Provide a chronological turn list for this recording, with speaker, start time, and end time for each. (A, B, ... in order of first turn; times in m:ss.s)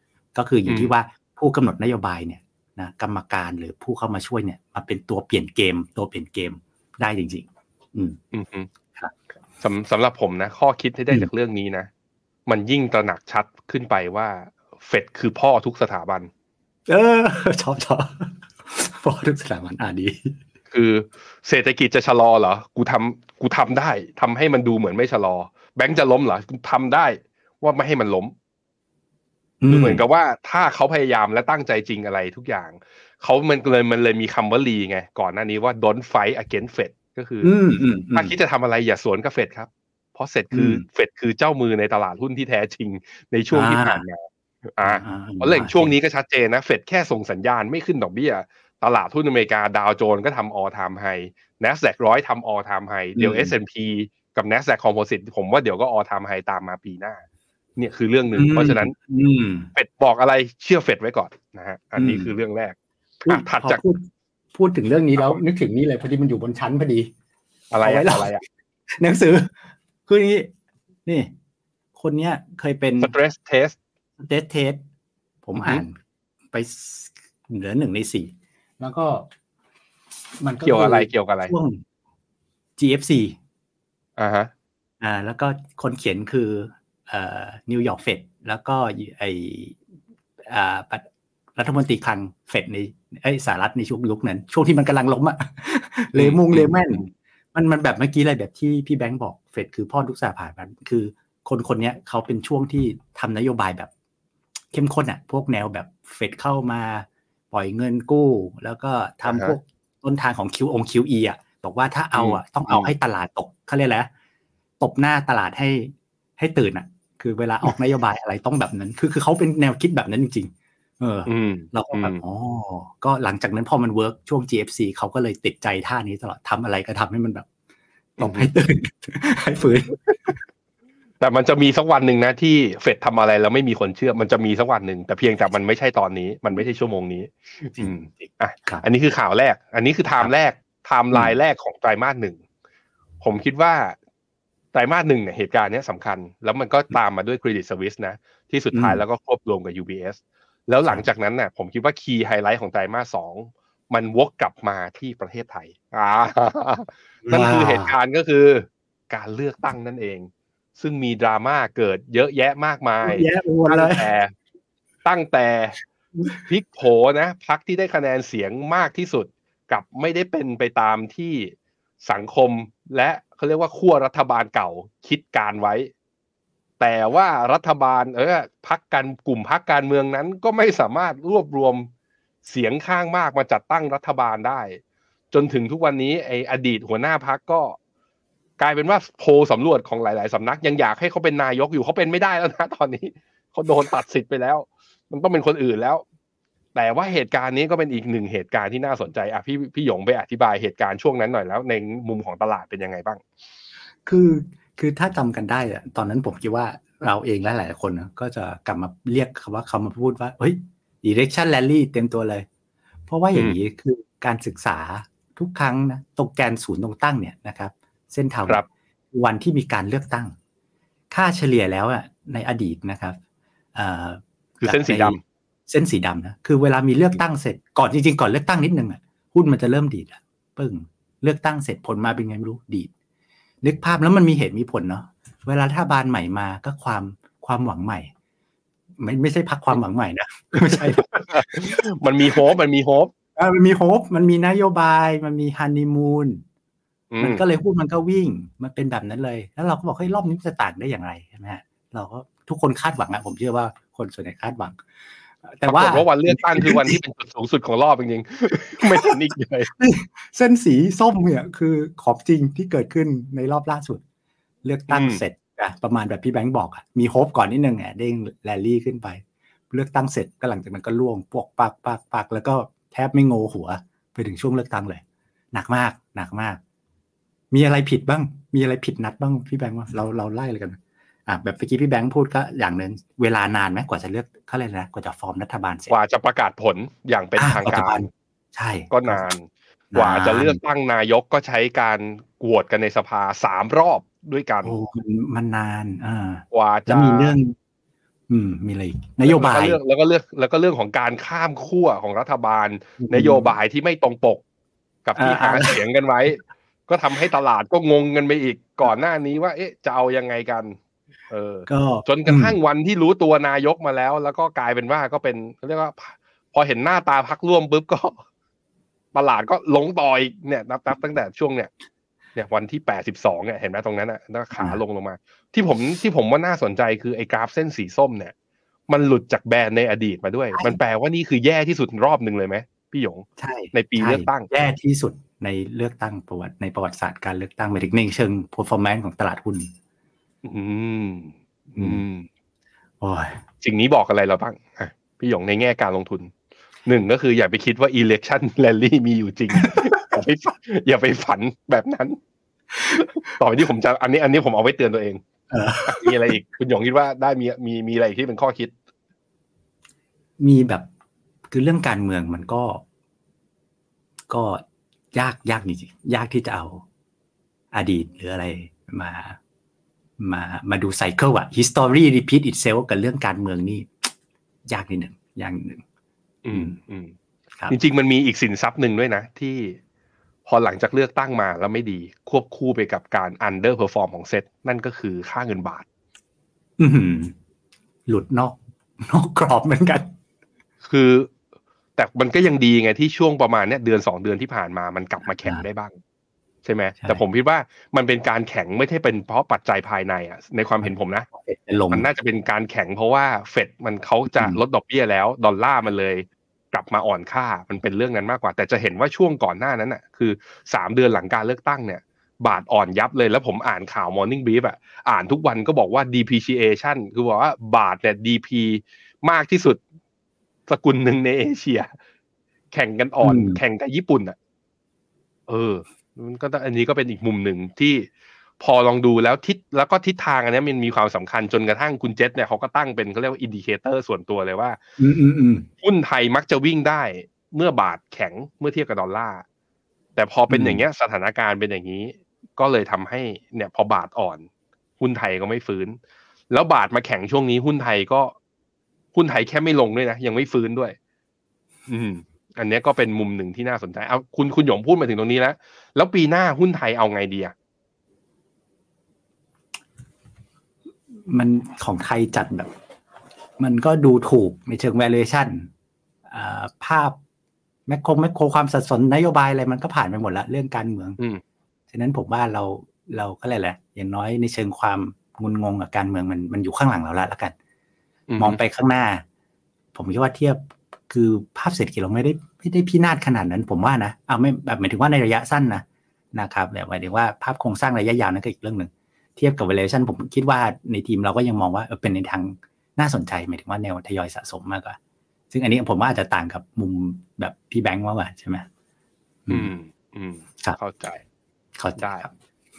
0:00.3-0:08.2 A
0:00.7-0:00.9 B
0:08.3-0:08.7 B
0:09.6-0:11.9 B
0:12.4-0:16.3 B
0:16.9-0:20.4 A
0:20.7-0:28.3 B
0:29.6-0:30.0 A
0:29.7-0:37.5 B
0:37.4-0:38.3 A
0:38.1-0:57.2 B
0:40.5-0:40.8 A
0:43.5-0:44.0 A
0:44.8-0:45.9 A
0:53.2-0:53.5 A
0:57.8-0:58.9 B
0:58.4-0:59.7 A
0:59.7-1:03.8 B
1:02.0-1:02.3 A
1:03.2-1:07.1 A
1:07.7-1:08.4 B
1:07.8-1:08.3 A
1:08.9-1:09.5 A
1:10.1-1:10.5 A
1:11.0-1:11.3 A
1:12.0-1:13.1 A
1:13.0-1:13.8 B
1:14.2-1:14.8 A
1:15.4-1:16.0 A
1:15.6-1:15.8 B
1:16.5-1:19.3 A
1:20.4-1:21.8 A
1:20.6-1:21.5 B
1:22.8-1:23.4 A
1:24.2-1:24.5 B
1:25.0-1:29.8 A
1:30.5-1:43.9 A
1:36.1-1:37.1 B
1:44.7-1:54.1 A
1:49.2-1:49.6 B
1:52.1-1:52.9 B
1:54.8-2:07.5 A
2:01.2-2:02.2 B
2:08.2-2:10.3 A
2:08.2-2:08.5 B
2:11.2-2:22.4 B
2:17.8-2:18.8 A
2:23.2-2:24.0 B
2:24.7-2:44.3 B
2:28.7-2:29.0 A
2:37.2-2:37.9 A
2:43.0-2:44.0 A
2:45.0-2:45.8 B
2:46.4-2:55.9 B
2:56.8-3:01.9 B
3:02.4-3:04.8 B
3:05.3-3:07.8 B
3:08.6-3:16.0 B
3:16.7-3:23.2 B
3:24.0-3:32.4 A
3:33.1-3:40.3 A
3:41.1-3:43.2 A
3:43.7-3:52.9 A
3:44.6-3:45.2 B
3:53.6-3:58.1 A
3:59.0-4:02.4 A
4:00.6-4:03.1 B
4:03.4-4:06.4 A
4:07.1-4:07.4 B
4:07.2-4:14.8 A
4:15.4-4:17.0 A
4:15.6-4:19.7 B
4:18.8-4:19.1 A
4:19.8-4:24.0 A
4:24.6-4:36.6 A
4:24.9-4:25.2 B
4:37.5-4:46.0 A
4:45.9-4:48.0 B
4:47.4-4:49.2 A
4:48.9-4:54.7 B
4:49.9-4:50.6 A
4:54.6-4:57.5 A
4:56.5-4:57.4 B
4:58.3-4:59.8 A
4:59.2-5:04.4 B
5:03.0-5:03.5 A
5:05.0-5:10.8 B
5:05.2-5:05.8 A
5:11.3-5:18.2 B
5:11.7-5:12.6 A
5:19.1-5:21.7 B
5:22.4-5:28.3 B
5:28.9-5:34.5 B
5:33.4-5:39.7 A
5:40.4-5:42.3 B
5:41.8-5:42.0 A
5:43.0-5:43.4 A
5:43.6-5:46.3 B
5:46.8-5:52.2 B
5:52.8-5:55.2 B
5:55.5-5:56.1 A
5:55.8-5:58.7 B
6:00.4-6:00.8 A
6:01.5-6:02.8 A
6:04.3-6:06.8 A
6:07.7-6:09.4 A
6:10.2-6:14.1 A
6:14.7-6:15.8 A
6:16.4-6:17.1 B
6:17.7-6:19.8 B
6:20.4-6:25.8 B
6:26.8-6:27.3 A
6:28.1-6:30.1 A
6:30.8-6:31.3 B
6:32.0-6:36.0 B
6:35.2-6:35.6 A
6:36.6-6:41.2 B
6:40.8-6:42.1 A
6:41.9-6:59.8 B
6:44.3-6:44.6 A
7:00.7-7:01.9 B
7:02.7-7:04.4 B
7:03.2-7:03.6 A
7:05.5-7:08.1 B
7:08.6-7:14.8 B
7:15.0-7:15.7 A
7:15.8-7:19.4 B
7:20.2-7:24.4 B
7:20.5-7:20.8 A
7:25.0-7:26.0 B
7:26.5-7:28.3 B
7:29.1-7:31.0 B
7:31.9-7:37.5 B
7:41.1-7:42.7 A
7:43.6-7:45.7 A
7:46.3-7:47.2 A
7:47.9-7:51.2 A
7:51.9-7:57.5 A
7:58.3-7:58.6 B
7:58.4-7:59.2 A
7:59.9-8:15.0 A
8:15.5-8:18.7 A
8:19.5-8:21.2 B
8:21.8-8:22.3 A
8:22.0-8:22.2 B